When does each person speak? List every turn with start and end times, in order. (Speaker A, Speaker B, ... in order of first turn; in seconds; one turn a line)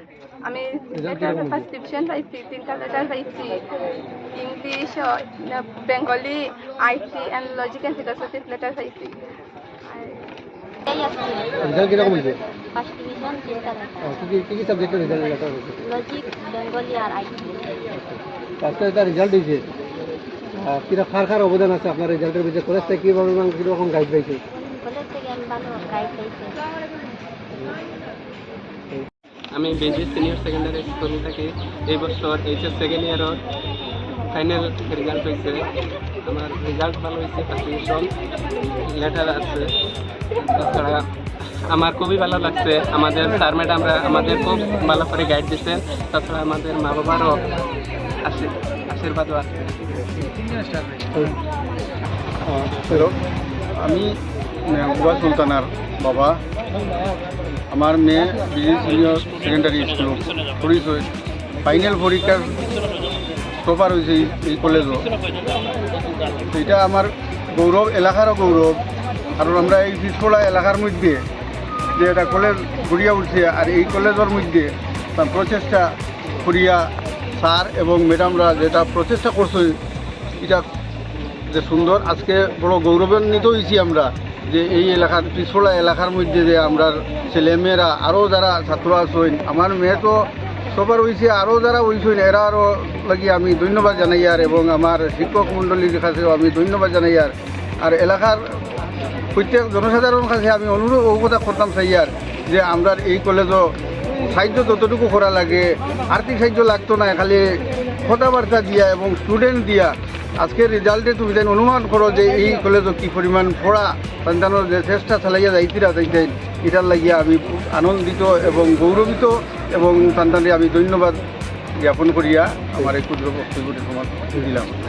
Speaker A: 0.4-3.6
Speaker B: 0.9-1.7
Speaker A: 4.3-9.2
Speaker A: 9.9-10.2
Speaker C: 10.9-12.0
Speaker B: 11.6-12.4
Speaker C: 12.7-14.6
Speaker B: 14.0-15.9
Speaker C: 15.8-17.9
Speaker B: 17.9-19.7
Speaker B: 20.5-24.4
Speaker C: 24.5-26.6
Speaker B: 27.5-27.8
Speaker D: 29.5-33.4
Speaker D: 34.3-35.6
Speaker D: 36.2-38.1
Speaker D: 38.9-39.7
Speaker D: 40.5-41.0
Speaker D: 41.7-47.5
Speaker D: 48.2-49.9
Speaker B: 52.4-53.0
Speaker E: 52.9-53.1
Speaker E: 53.8-54.1
Speaker E: 54.6-56.4
Speaker E: 57.7-61.0
Speaker E: 61.6-62.7
Speaker E: 63.6-65.1
Speaker E: 66.4-68.8
Speaker E: 69.4-71.2
Speaker E: 71.9-75.9
Speaker E: 76.4-79.8
Speaker E: 80.4-80.7
Speaker E: 81.5-98.4
Speaker E: 99.3-121.2
Speaker E: 121.8-124.8